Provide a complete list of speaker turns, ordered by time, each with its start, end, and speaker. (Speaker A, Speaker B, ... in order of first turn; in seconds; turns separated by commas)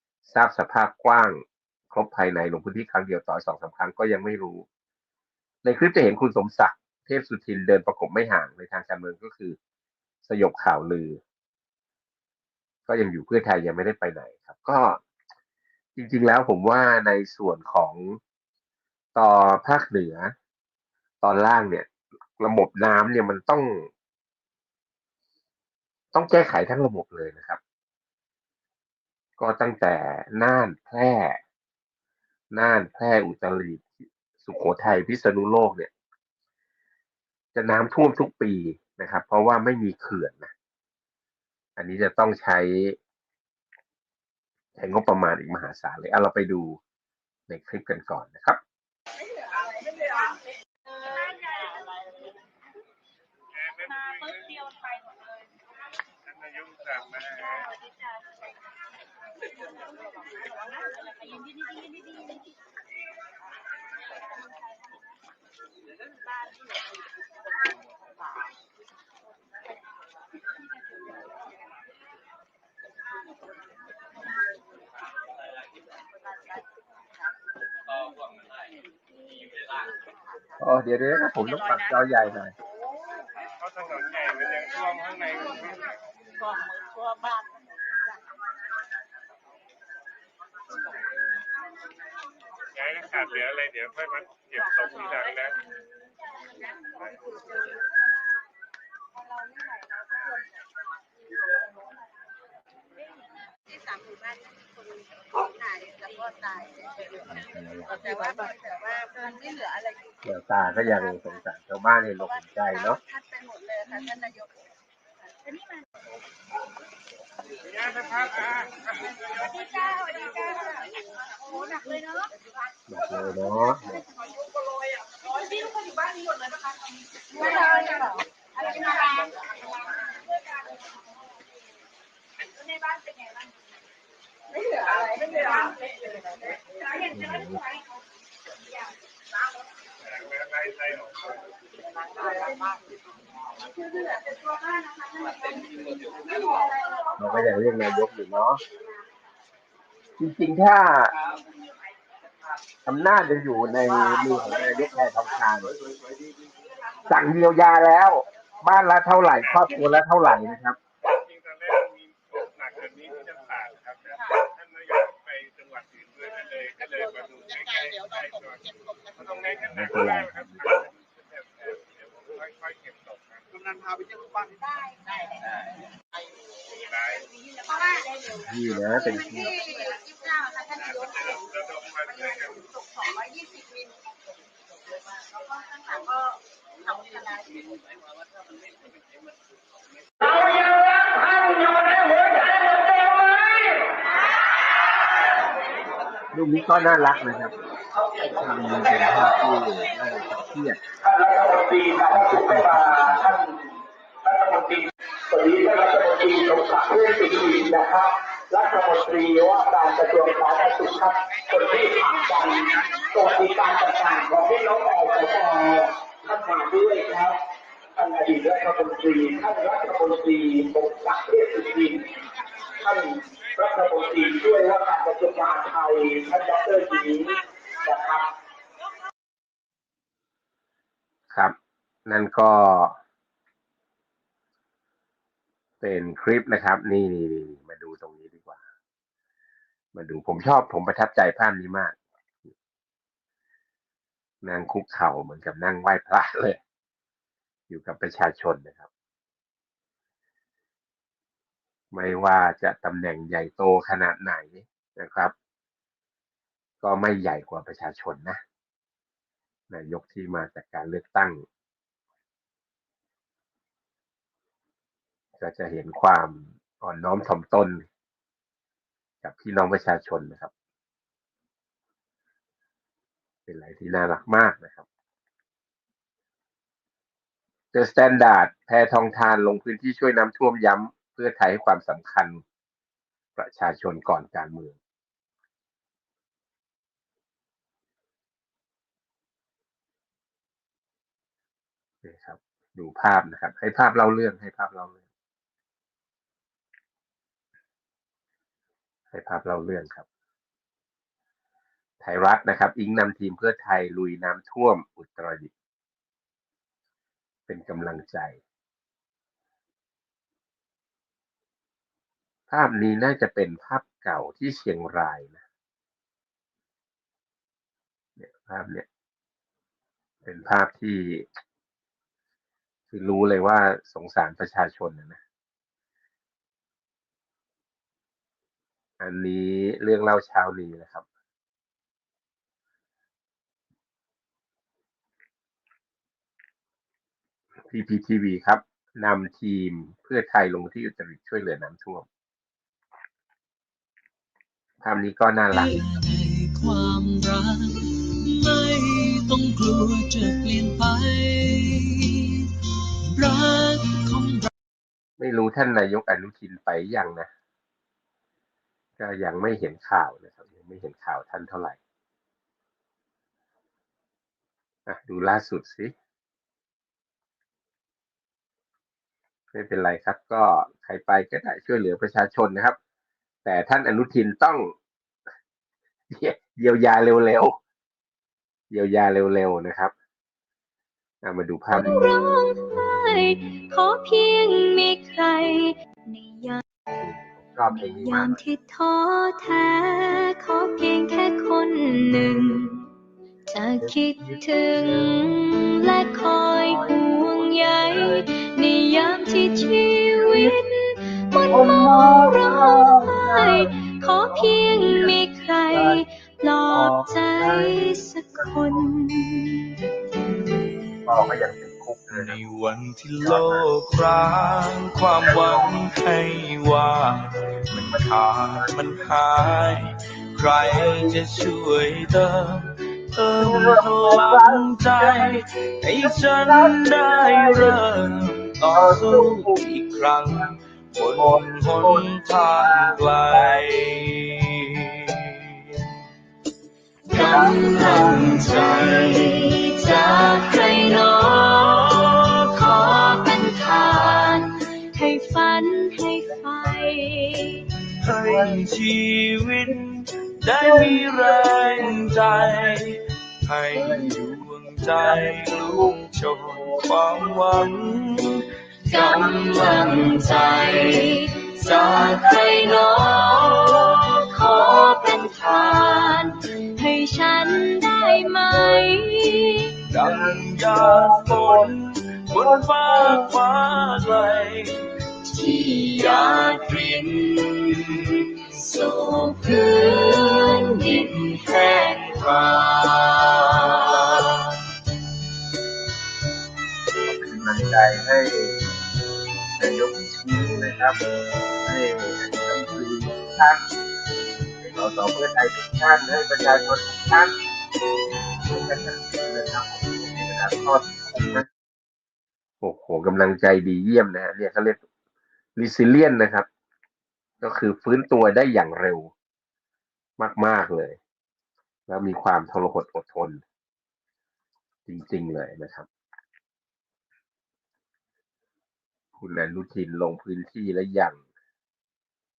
Speaker A: 0.2-4.7, Speaker A: 5.6-9.6, Speaker A: 10.2-11.2, Speaker A: 12.9-15.0, Speaker A: 15.9-18.2, Speaker A: 19.1-20.3, Speaker A: 21.2-21.9, Speaker A: 22.4-23.9, Speaker A: 26.1-27.6, Speaker A: 29.4-31.4, Speaker A: 32.5-35.9, Speaker A: 37.5-40.5, Speaker A: 41.8-43.0, Speaker A: 44.8-46.8, Speaker A: 47.5-48.6, Speaker B: 53.6-54.6, Speaker B: 56.3-57.7, Speaker A: 80.6-82.5, Speaker B: 83.6-85.9, Speaker B: 92.8-95.5, Speaker B: 97.0-97.3, Speaker C: 103.6-107.2, Speaker A: 107.2-108.0, Speaker C: 108.0-110.2, Speaker A: 110.2-113.0, Speaker C: 110.9-111.2, Speaker C: 112.3-114.5, Speaker B: 117.7-119.6, Speaker C: 119.7-120.8, Speaker C: 121.4-122.2, Speaker A: 122.9-124.0, Speaker C: 125.3-126.0, Speaker C: 127.3-129.3, Speaker C: 134.6-135.8, Speaker A: 137.1-137.6, Speaker B: 140.0-141.3, Speaker C: 142.2-142.7, Speaker C: 143.8-147.1, Speaker A: 147.2-148.6, Speaker A: 150.2-151.1, Speaker A: 152.8-155.7, Speaker A: 157.1-160.8, Speaker B: 161.0-173.7, Speaker C: 166.9-169.3, Speaker A: 169.7-170.9, Speaker C: 174.5-175.4, Speaker B: 176.7-177.3, Speaker C: 177.6-178.2, Speaker A: 178.3-179.6, Speaker C: 179.0-181.2, Speaker B: 180.8-182.6, Speaker C: 182.1-184.0, Speaker C: 185.2-186.2, Speaker C: 186.8-187.8, Speaker D: 190.2-193.2, Speaker A: 196.3-197.5, Speaker A: 198.2-200.8, Speaker D: 201.0-203.6, Speaker A: 202.1-203.4, Speaker D: 204.2-217.4, Speaker D: 217.9-222.1, Speaker D: 222.8-228.3, Speaker A: 232.1-233.0, Speaker A: 235.8-238.6, Speaker A: 239.9-241.9, Speaker A: 244.4-246.6, Speaker A: 247.7-248.9, Speaker A: 251.9-255.3, Speaker A: 256.8-258.4, Speaker A: 259.7-261.4, Speaker A: 265.4-267.8, Speaker A: 269.2-270.5, Speaker A: 273.5-274.9, Speaker A: 277.7-282.4, Speaker A: 283.4-284.8, Speaker A: 292.0-295.0, Speaker A: 299.1-300.1, Speaker A: 302.0-305.5, Speaker A: 307.5-308.4, Speaker A: 312.5-315.4, Speaker A: 318.2-318.9, Speaker A: 320.2-321.3, Speaker A: 322.9-325.2, Speaker A: 329.0-331.0, Speaker A: 337.7-342.1, Speaker A: 344.8-345.8, Speaker E: 345.5-352.5, Speaker E: 353.1-354.5, Speaker A: 355.2-357.3, Speaker A: 359.0-361.8, Speaker A: 364.9-365.9, Speaker A: 369.5-372.8, Speaker A: 373.4-374.7, Speaker A: 376.1-377.6, Speaker A: 378.7-379.9, Speaker A: 381.2-382.0, Speaker F: 381.7-386.6, Speaker A: 386.9-388.4, Speaker F: 387.7-392.9, Speaker F: 393.5-409.7, Speaker A: 393.8-395.3, Speaker A: 396.6-398.2, Speaker A: 400.2-400.5, Speaker A: 401.5-403.7, Speaker A: 404.3-405.2, Speaker A: 405.7-406.0, Speaker A: 406.7-408.9, Speaker A: 411.0-412.3, Speaker G: 412.1-435.9, Speaker A: 413.2-413.7, Speaker A: 415.2-415.8, Speaker A: 420.6-420.9, Speaker A: 423.4-425.3, Speaker A: 426.1-427.8, Speaker A: 428.7-429.6, Speaker A: 431.1-432.1, Speaker A: 432.6-432.9, Speaker F: 437.1-447.7, Speaker A: 437.2-437.6, Speaker G: 437.2-439.4, Speaker G: 439.9-440.4, Speaker G: 447.9-465.1, Speaker A: 448.2-448.6, Speaker A: 450.6-450.9, Speaker A: 453.9-454.2, Speaker F: 458.9-469.9, Speaker G: 469.9-474.9, Speaker A: 470.2-471.7, Speaker A: 472.9-473.2, Speaker F: 475.3-477.4, Speaker G: 476.0-479.6, Speaker F: 478.7-484.0, Speaker G: 480.8-481.1, Speaker G: 482.0-484.6, Speaker A: 487.1-488.6, Speaker A: 489.6-490.9, Speaker A: 491.6-493.6, Speaker A: 494.6-497.3, Speaker A: 498.4-501.4, Speaker A: 502.6-504.8, Speaker A: 505.6-506.5, Speaker A: 507.4-509.1, Speaker A: 510.2-511.0, Speaker A: 511.9-513.4, Speaker A: 514.9-515.9, Speaker A: 519.2-521.2